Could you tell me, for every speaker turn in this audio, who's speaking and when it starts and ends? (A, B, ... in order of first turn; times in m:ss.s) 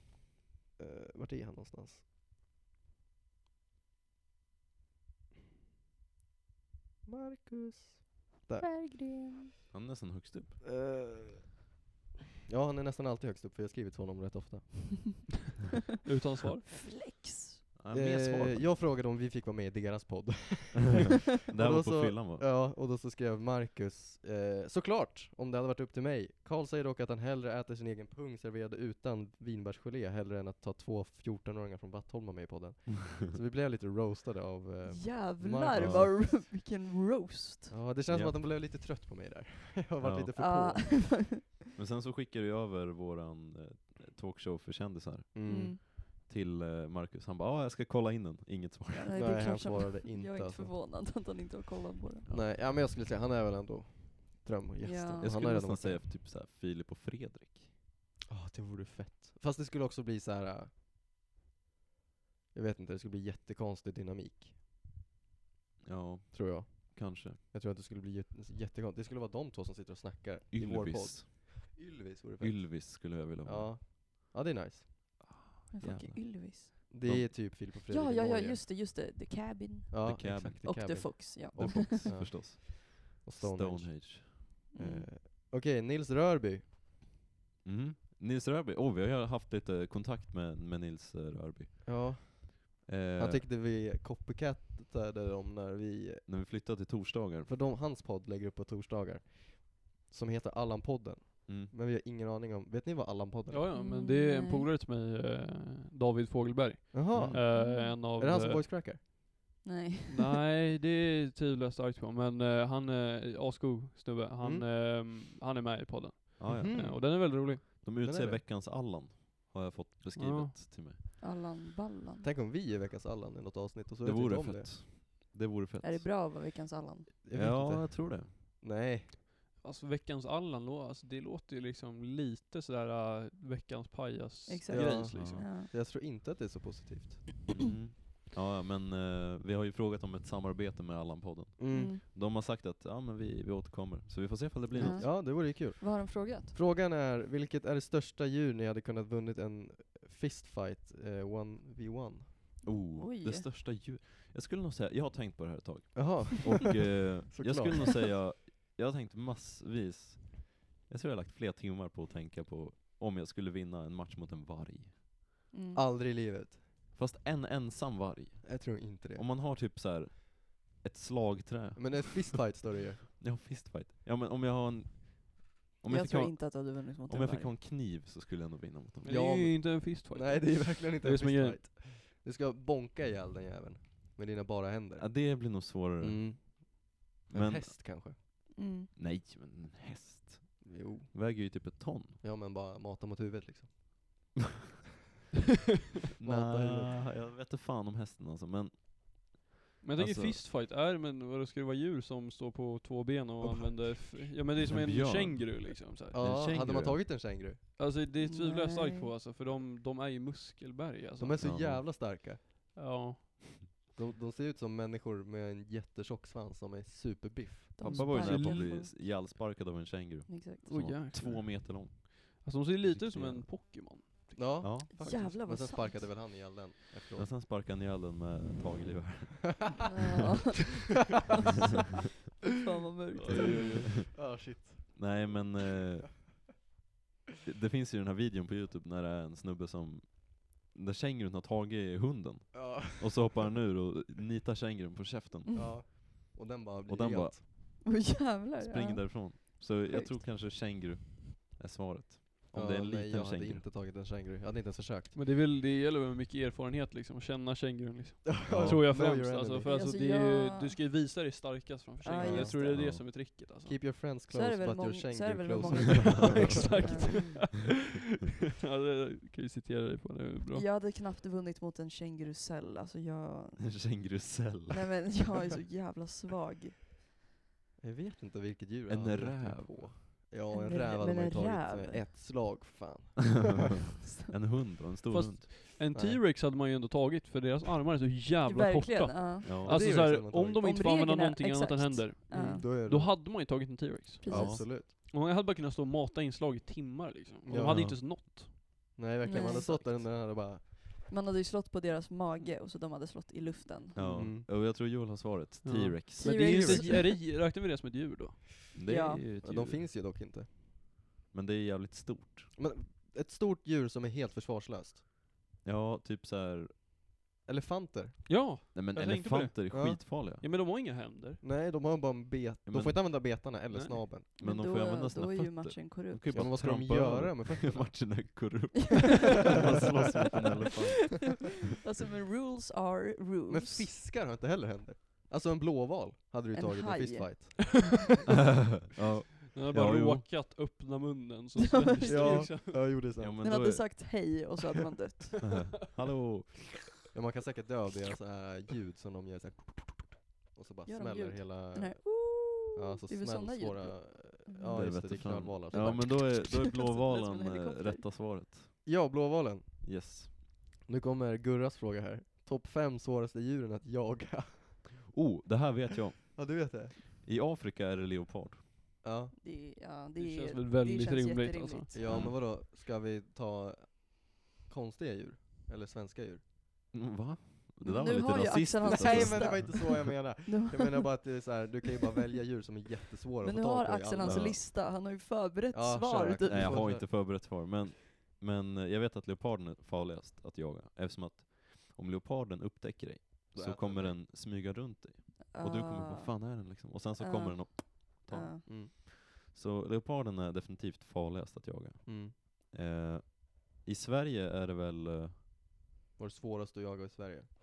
0:00.8-0:02.0 A
0:07.1-0:08.7 A
0:08.6-0:09.5 B
0:09.7-0:10.6 C
0:10.6-0:11.5 A
0:12.5-0:15.2 A
0:16.0-0:16.7 D
0:16.8-0:17.6 B
0:17.8-0:18.7 C
0:17.9-0:36.4 A
0:21.5-0:22.5 C
0:34.9-0:37.8 B
0:35.8-0:36.1 C
0:37.7-0:41.0 A
0:38.1-0:38.4 C
0:40.0-0:40.4 C
0:40.4-0:41.4 B
0:41.8-0:49.6 C
0:45.3-0:45.8 A
0:45.5-0:45.8 B
0:48.9-0:52.3 B
0:49.2-0:50.7 A
0:52.3-0:56.1 A
0:54.8-0:55.3 B
0:55.2-0:57.7 C
0:58.3-1:00.7 A
1:02.5-1:04.6 A
1:05.8-1:07.4 C
1:06.3-1:15.2 A
1:10.5-1:11.3 C
1:12.4-1:13.8 C
1:15.4-1:17.4 C
1:15.7-1:16.9 B
1:16.9-1:18.6 A
1:17.9-1:22.1 B
1:19.9-1:26.8 A
1:20.1-1:20.7 C
1:21.5-1:24.6 C
1:24.7-1:25.1 B
1:27.6-1:32.3 C
1:31.8-1:36.3 A
1:32.8-1:33.4 C
1:36.3-1:37.6 C
1:37.5-1:43.7 A
1:41.5-1:41.7 C
1:43.5-1:48.6 D
1:43.8-1:44.7 B
1:46.9-1:49.0 A
1:47.1-1:47.4 C
1:47.5-1:48.0 B
1:49.6-1:50.3 B
1:50.1-1:57.6 D
1:54.4-1:54.7 A
1:56.4-2:01.0 C
1:56.5-1:58.4 A
2:00.2-2:00.6 D
2:01.2-2:02.3 B
2:02.2-2:04.7 A
2:04.0-2:06.1 C
2:05.8-2:07.1 B
2:07.2-2:09.1 A
2:07.3-2:08.3 C
2:09.6-2:15.4 D
2:14.5-2:15.7 B
2:14.7-2:17.5 A
2:15.2-2:15.4 C
2:17.5-2:25.1 C
2:21.6-2:22.0 A
2:21.7-2:22.0 B
2:24.8-2:26.6 B
2:24.8-2:32.6 A
2:32.6-2:45.1 C
2:32.9-2:33.5 B
2:36.0-2:37.8 A
2:45.5-2:45.8 B
2:45.7-2:46.6 A
2:47.0-2:52.4 C
2:48.4-2:49.3 A
2:51.8-2:53.0 A
2:53.1-2:59.2 C
2:55.9-2:57.5 B
2:59.0-3:01.6 D
2:59.1-3:08.2 A
3:05.0-3:06.4 C
3:07.3-3:08.4 C
3:08.6-3:08.9 B
3:08.9-3:12.2 C
3:10.6-3:11.1 A
3:12.2-3:14.3 A
3:16.2-3:20.4 C
3:16.2-3:17.1 A
3:19.8-3:26.3 D
3:23.4-3:24.4 A
3:24.7-3:27.0 C
3:26.1-3:27.6 A
3:27.8-3:31.5 D
3:28.2-3:29.1 B
3:31.2-3:32.4 A
3:31.4-3:31.8 C
3:32.8-3:33.4 D
3:34.0-3:37.8 A
3:37.8-3:38.9 B
3:37.8-3:43.5 C
3:37.9-3:38.8 D
3:40.3-3:40.6 B
3:40.6-3:44.7 D
3:44.4-3:47.3 A
3:44.6-3:44.9 C
3:44.9-3:46.2 B
3:47.1-3:49.8 C
3:49.9-3:50.6 B
3:52.5-3:53.8 B
3:53.2-3:54.0 D
3:53.3-3:54.1 C
3:53.3-3:55.4 A
3:54.9-3:56.3 C
3:57.4-4:06.1 C
4:02.5-4:03.3 A
4:05.5-4:07.4 A
4:06.9-4:07.8 C
4:07.8-4:10.2 B
4:08.6-4:13.6 C
4:12.5-4:15.1 A
4:15.1-4:23.9 D
4:18.3-4:19.7 A
4:18.5-4:18.8 C
4:19.6-4:20.8 B
4:22.0-4:22.7 B
4:22.2-4:27.2 A
4:22.7-4:23.0 C
4:24.3-4:27.4 B
4:26.2-4:27.7 D
4:28.6-4:30.7 D
4:30.5-4:33.8 B
4:33.6-4:35.2 C
4:34.7-4:36.8 B
4:37.8-4:43.8 A
4:38.9-4:40.0 C
4:40.5-4:42.1 B
4:44.0-4:44.3 B
4:44.3-4:45.5 C
4:45.1-4:59.9 D
4:45.9-4:46.2 A
4:48.5-4:49.6 B
4:49.4-4:49.8 C
4:49.6-4:50.7 A
4:50.6-4:52.7 B
4:52.3-4:53.1 A
4:54.2-4:54.6 B
4:54.3-4:54.9 A
4:54.3-4:54.7 C
4:57.5-4:58.0 A
4:57.6-4:58.0 C
4:59.0-5:00.7 A
4:59.2-5:00.2 B
5:01.1-5:04.3 B
5:04.0-5:06.8 C
5:04.0-5:04.5 A
5:05.6-5:08.7 D
5:06.2-5:07.2 B
5:08.7-5:09.9 C
5:08.9-5:09.3 B
5:09.4-5:10.5 A
5:11.3-5:12.5 C
5:12.6-5:15.0 A
5:15.6-5:16.8 C
5:17.5-5:18.4 A
5:18.3-5:21.4 D
5:18.7-5:20.4 C
5:19.7-5:20.0 A
5:21.4-5:24.3 A
5:22.7-5:23.0 C
5:23.7-5:24.0 D
5:24.4-5:31.4 C
5:24.4-5:26.6 B
5:26.3-5:28.3 A
5:31.7-5:33.9 B
5:33.5-5:38.0 A
5:36.5-5:37.7 B
5:38.5-5:40.2 C
5:39.5-5:42.9 D
5:41.7-5:42.7 B
5:42.1-5:43.4 A
5:43.2-5:44.2 C
5:43.4-5:45.6 B
5:45.4-5:46.8 C
5:47.1-5:56.2 A
5:50.9-5:58.0 B
5:54.7-5:58.8 C
5:58.8-5:59.8 A
5:59.8-6:00.3 C
6:00.8-6:04.9 A
6:05.1-6:08.7 C
6:06.2-6:06.9 A
6:09.0-6:09.3 A
6:09.4-6:12.3 B
6:10.2-6:11.9 D
6:11.9-6:16.4 A
6:12.0-6:12.4 C
6:16.9-6:19.9 C
6:17.8-6:21.4 B
6:18.8-6:24.7 A
6:23.4-6:26.9 B
6:24.2-6:24.6 C
6:25.7-6:27.0 A
6:26.5-6:45.4 C
6:33.5-6:34.2 A
6:35.5-6:38.6 B
6:38.7-6:38.9 A
6:42.0-6:42.3 A
6:46.2-6:47.5 A